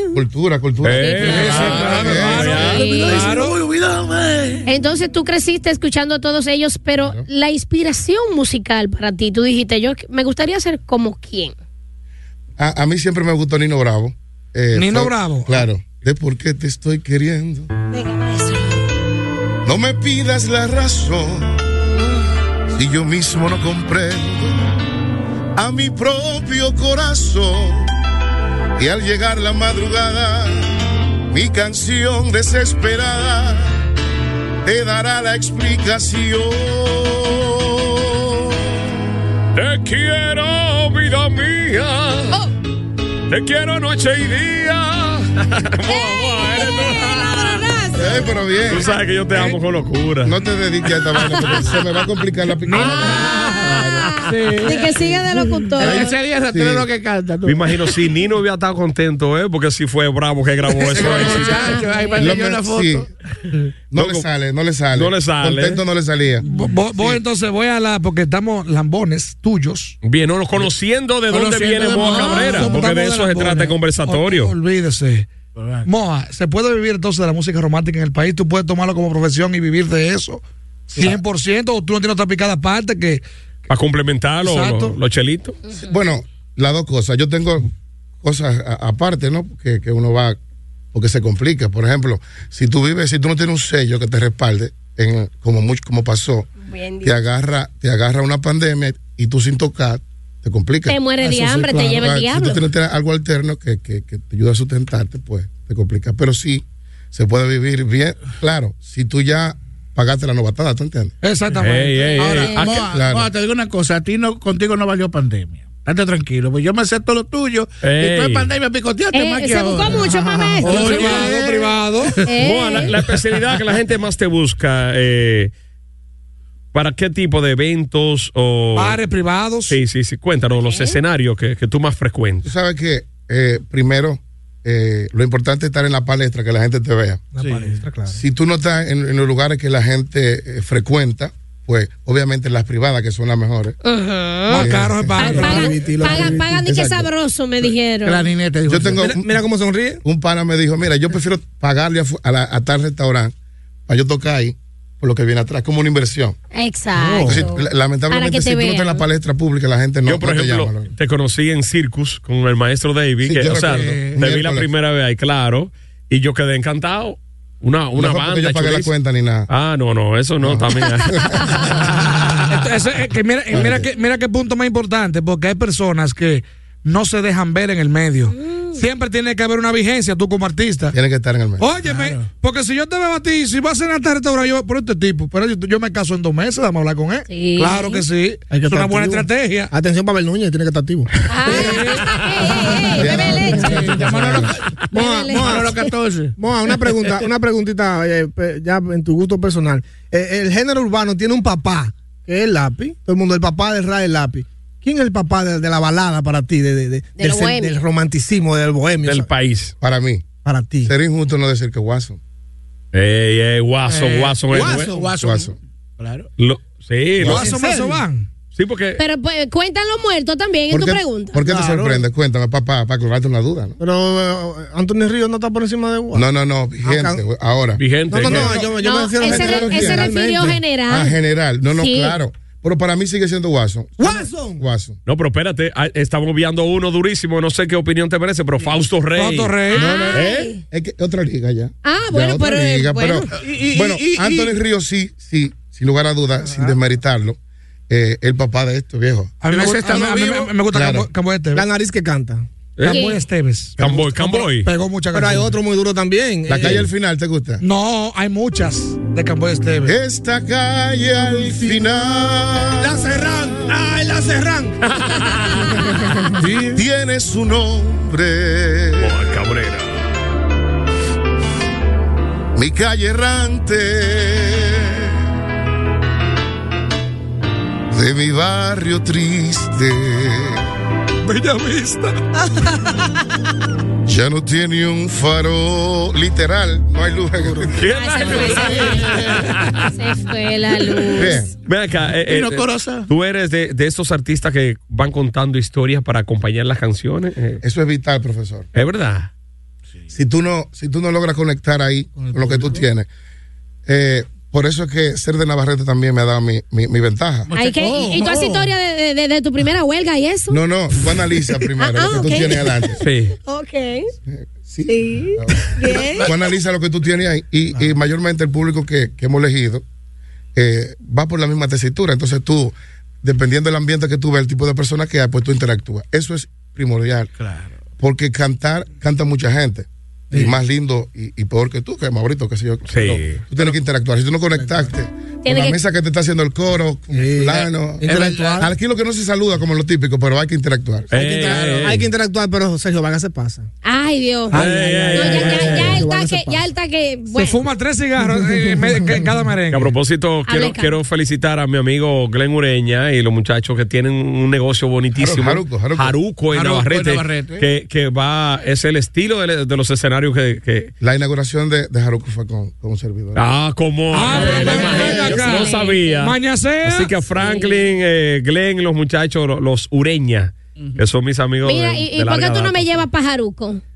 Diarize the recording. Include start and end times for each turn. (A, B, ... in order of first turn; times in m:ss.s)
0:00.1-0:02.4 A
0:00.8-0:02.9 B
0:01.0-0:03.4 C
0:01.2-0:03.5 D
0:01.4-0:04.7 E
0:04.7-0:11.6 C
0:07.0-0:07.3 A
0:12.6-0:17.7 A
0:14.7-0:15.6 D
0:17.9-0:18.8 C
0:19.6-0:21.8 A
0:22.7-0:24.6 A
0:25.6-0:27.9 A
0:28.8-0:33.8 A
0:34.6-0:38.9 A
0:39.6-0:42.4 B
0:43.3-0:47.6 B
0:45.9-0:48.5 C
0:48.0-0:48.9 A
0:48.7-0:50.4 B
0:50.2-0:54.1 A
0:52.6-0:53.6 D
0:52.8-0:53.2 C
0:54.2-0:58.0 E
0:54.6-0:56.1 C
0:55.8-0:56.9 A
0:57.5-1:01.8 B
1:00.8-1:03.1 E
1:02.0-1:02.2 C
1:02.2-1:03.1 A
1:03.9-1:06.4 A
1:04.0-1:04.3 B
1:04.9-1:05.8 B
1:06.4-1:10.0 D
1:10.0-1:14.6 B
1:11.3-1:12.8 E
1:12.0-1:15.3 D
1:15.6-1:15.9 E
1:15.8-1:23.2 D
1:23.7-1:25.6 B
1:24.4-1:25.0 D
1:25.8-1:27.7 A
1:28.2-1:30.4 A
1:30.9-1:36.5 A
1:36.6-1:37.2 C
1:37.0-1:51.1 A
1:40.9-1:42.6 C
1:51.2-1:52.1 D
1:51.6-1:52.8 B
1:52.2-2:01.5 E
1:52.3-1:52.6 C
1:52.8-1:53.3 A
1:57.8-1:58.5 B
1:59.1-2:01.4 C
2:00.6-2:02.2 D
2:02.2-2:02.9 C
2:02.4-2:05.5 B
2:06.7-2:09.0 B
2:08.8-2:09.8 D
2:09.7-2:12.5 B
2:10.6-2:11.0 C
2:12.4-2:17.3 A
2:17.4-2:17.7 D
2:17.4-2:18.2 F
2:18.1-2:23.8 A
2:23.8-2:28.2 C
2:24.5-2:25.8 D
2:24.6-2:25.4 A
2:25.3-2:26.6 F
2:26.6-2:27.1 A
2:28.0-2:29.1 E
2:28.7-2:29.3 A
2:29.0-2:30.0 F
2:30.0-2:33.3 A
2:33.9-2:36.4 A
2:36.5-2:39.0 C
2:37.2-2:40.9 A
2:40.1-2:48.9 B
2:43.2-2:44.7 A
2:43.4-2:44.2 E
2:48.0-2:49.5 A
2:49.5-2:51.3 B
2:50.4-2:51.7 A
2:52.5-3:01.0 D
2:53.5-2:53.9 A
2:58.3-2:58.8 C
3:00.9-3:01.6 A
3:01.6-3:09.7 D
3:01.8-3:02.3 E
3:07.3-3:08.0 C
3:08.5-3:11.8 F
3:11.3-3:13.9 C
3:11.5-3:12.0 D
3:13.0-3:14.6 A
3:13.6-3:14.6 E
3:13.9-3:14.5 D
3:14.9-3:15.8 F
3:14.9-3:15.7 C
3:15.2-3:16.4 E
3:16.4-3:29.3 F
3:27.2-3:27.8 C
3:29.0-3:29.7 B
3:29.8-3:30.3 A
3:30.4-3:30.9 F
3:30.8-3:32.2 A
3:32.9-3:34.9 B
3:33.9-3:36.3 E
3:34.6-3:35.0 F
3:35.1-3:35.6 A
3:36.4-3:37.6 B
3:37.2-3:38.3 D
3:37.3-3:38.0 F
3:38.5-3:39.0 B
3:39.0-3:41.4 C
3:40.7-3:43.8 A
3:41.4-3:42.1 F
3:43.8-3:46.3 F
3:46.1-3:48.5 A
3:46.8-3:47.2 F
3:47.8-3:48.6 B
3:48.1-3:50.6 F
3:48.8-3:51.2 C
3:49.2-3:50.1 A
3:50.8-3:55.0 A
3:51.7-3:52.2 C
3:54.0-3:54.6 F
3:55.1-3:59.6 B
3:59.2-4:00.0 D
3:59.7-4:00.6 C
3:59.8-4:07.4 A
4:00.1-4:00.5 B
4:01.8-4:03.3 C
4:03.3-4:04.6 E
4:06.4-4:06.8 F
4:07.9-4:09.4 A
4:09.4-4:11.7 D
4:09.5-4:10.5 E
4:10.7-4:11.1 A
4:11.5-4:12.5 F
4:12.8-4:13.1 B
4:12.8-4:15.5 D
4:12.9-4:13.2 C
4:13.8-4:14.7 B
4:15.1-4:16.9 F
4:16.5-4:17.6 A
4:17.6-4:20.0 D
4:19.9-4:23.5 A
4:21.3-4:22.0 F
4:22.8-4:24.8 F
4:24.8-4:25.9 B
4:25.7-4:26.5 F
4:26.4-4:26.8 D
4:26.7-4:29.2 A
4:29.0-4:30.0 B
4:32.6-4:35.1 A
4:37.9-4:40.6 A
4:41.2-4:42.2 D
4:44.1-4:47.8 A
4:47.7-4:49.8 B
4:47.9-4:49.2 C
4:48.3-4:49.6 E
4:49.9-4:51.5 C
4:51.2-4:51.5 A
4:51.6-4:57.6 B
4:52.2-4:53.1 E
4:57.6-4:58.7 A
4:58.7-4:59.3 B
5:00.1-5:03.1 A
5:02.2-5:02.8 E
5:03.9-5:07.5 A
5:07.5-5:08.7 E
5:07.6-5:10.6 C
5:10.5-5:13.0 A
5:11.8-5:12.8 C
5:13.0-5:13.4 B
5:13.4-5:14.1 C
5:14.3-5:19.8 A
5:14.9-5:16.3 C
5:15.8-5:16.4 E
5:20.6-5:27.3 A
5:27.4-5:27.8 E
5:28.0-5:41.1 A
5:32.9-5:33.4 B
5:34.5-5:34.9 F
5:35.4-5:35.8 C
5:37.1-5:38.7 F
5:38.0-5:38.7 E
5:41.1-5:42.0 B
5:41.1-5:41.9 E
5:41.8-5:43.7 F
5:43.8-5:44.6 C
5:44.5-5:46.0 B
5:44.5-5:46.6 F
5:45.1-5:47.6 C
5:47.3-5:49.9 D
5:48.2-5:49.2 F
5:49.7-6:00.9 B
5:50.5-5:50.9 C
5:55.2-5:56.1 A
5:56.5-5:57.6 E
6:01.0-6:03.4 A
6:03.4-6:13.0 B
6:04.1-6:07.1 D
6:04.4-6:06.2 C
6:07.4-6:07.8 C
6:11.6-6:13.8 C